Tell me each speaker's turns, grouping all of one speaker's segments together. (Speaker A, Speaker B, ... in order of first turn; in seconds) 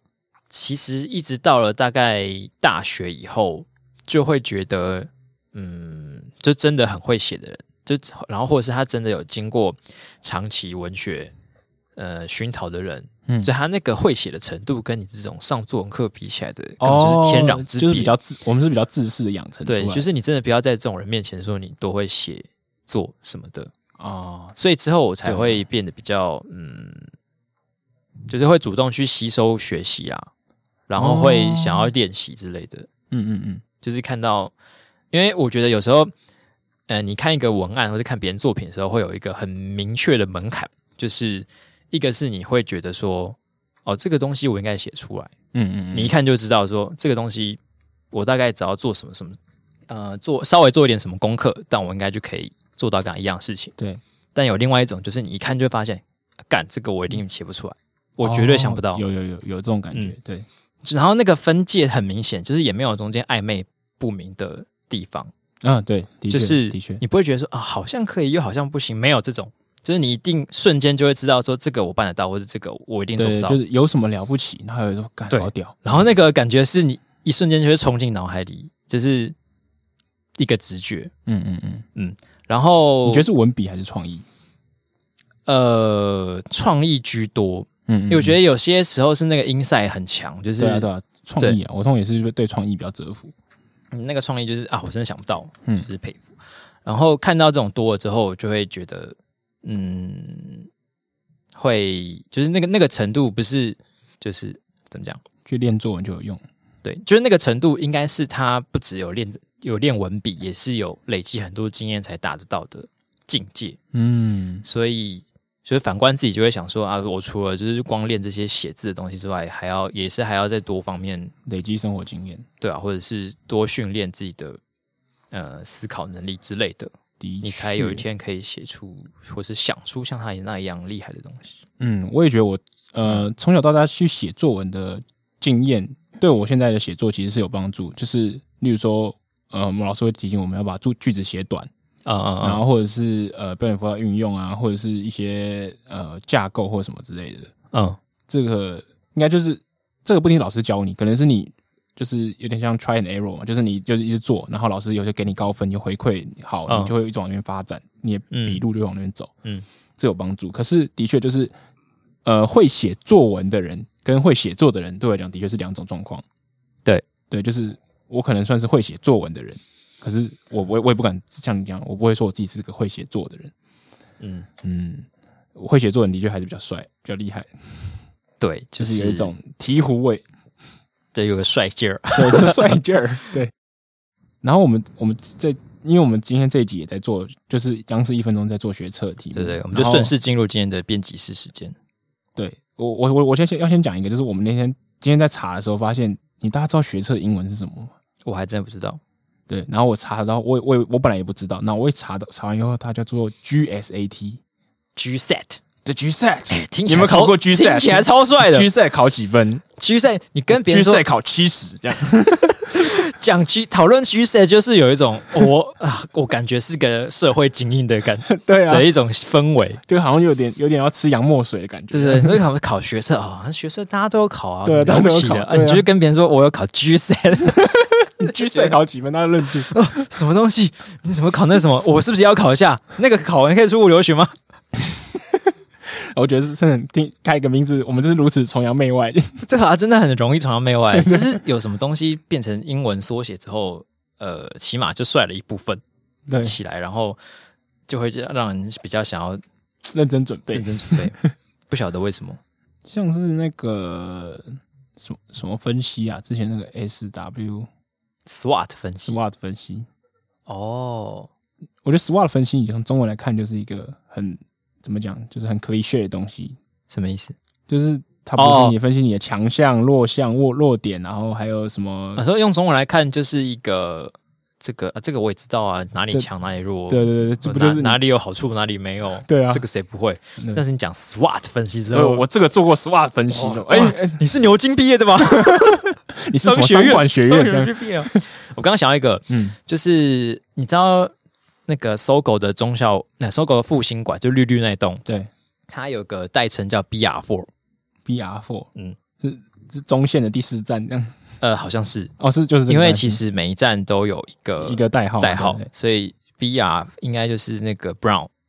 Speaker A: 0.5-11.3, 11.9-18.1, 19.6-23.7, 24.6-27.1, 28.3-30.3, 30.9-32.9, 33.8-34.5, 35.1-36.1, 36.9-45.3, 45.9-47.6, 48.1-49.4, 49.9-53.7, 54.3-59.0, 60.8-65.3, 66.3-73.6, 75.3-79.3, 80.4-81.1, 82.0-83.3, 85.5-90.9, 93.9-96.3, 96.8-100.7, 101.5-105.2, 106.8-113.8, 114.6-121.3, 122.6-124.6, 125.3-126.9, 127.4-131.6, 142.0-142.6, 147.7-148.0, 156.7-156.9, 158.3-158.6, 174.2-174.5, 178.4-179.3, 181.1-182.8, 189.3-191.8, 198.2-199.0, 204.9-205.6, 206.5-208.7, 209.8-211.0, 212.4-219.8, 221.9-228.7, 229.7-234.3, 239.4-245.8, 246.4-247.2, 247.9-249.4, 250.5-251.1, 251.7-252.4, 258.2-259.2, 260.5-261.3, 266.9-267.3, 268.4-268.8, 272.1-282.2, 283.3-291.1, 291.7-295.0, 295.7-297.5, 301.4-302.1, 302.7-308.3
Speaker B: 16.8-20.0, 24.0-24.6, 25.2-25.6, 30.9-31.9, 33.1-33.6, 45.5-46.1, 58.2-60.5, 65.6-67.0, 73.2-75.8, 81.3-81.8, 83.0-84.2, 87.9-88.4, 90.6-93.3, 105.4-106.4, 113.9-114.6, 121.5-122.4, 127.2-128.0, 131.8-141.7, 142.4-147.5, 148.3-159.3, 160.0-161.5, 162.2-166.2, 167.3-173.5, 174.6-177.5, 178.8-180.2, 182.2-183.5, 184.4-190.1, 192.3-197.9, 199.5-204.4, 205.8-209.6, 210.5-212.9, 218.3-218.9, 219.9-222.4, 224.6-225.8, 227.6-229.7, 235.1-239.4, 240.9-241.4, 246.3-246.6, 249.8-251.3, 252.8-257.7, 259.1-259.9, 261.8-266.6, 267.7-272.2, 276.9-278.0, 279.2-279.6, 281.9-284.2, 285.3-288.2, 289.3-289.6, 295.0-295.3, 298.1-298.7, 299.2-301.1, 302.2-303.2, 304.6-305.7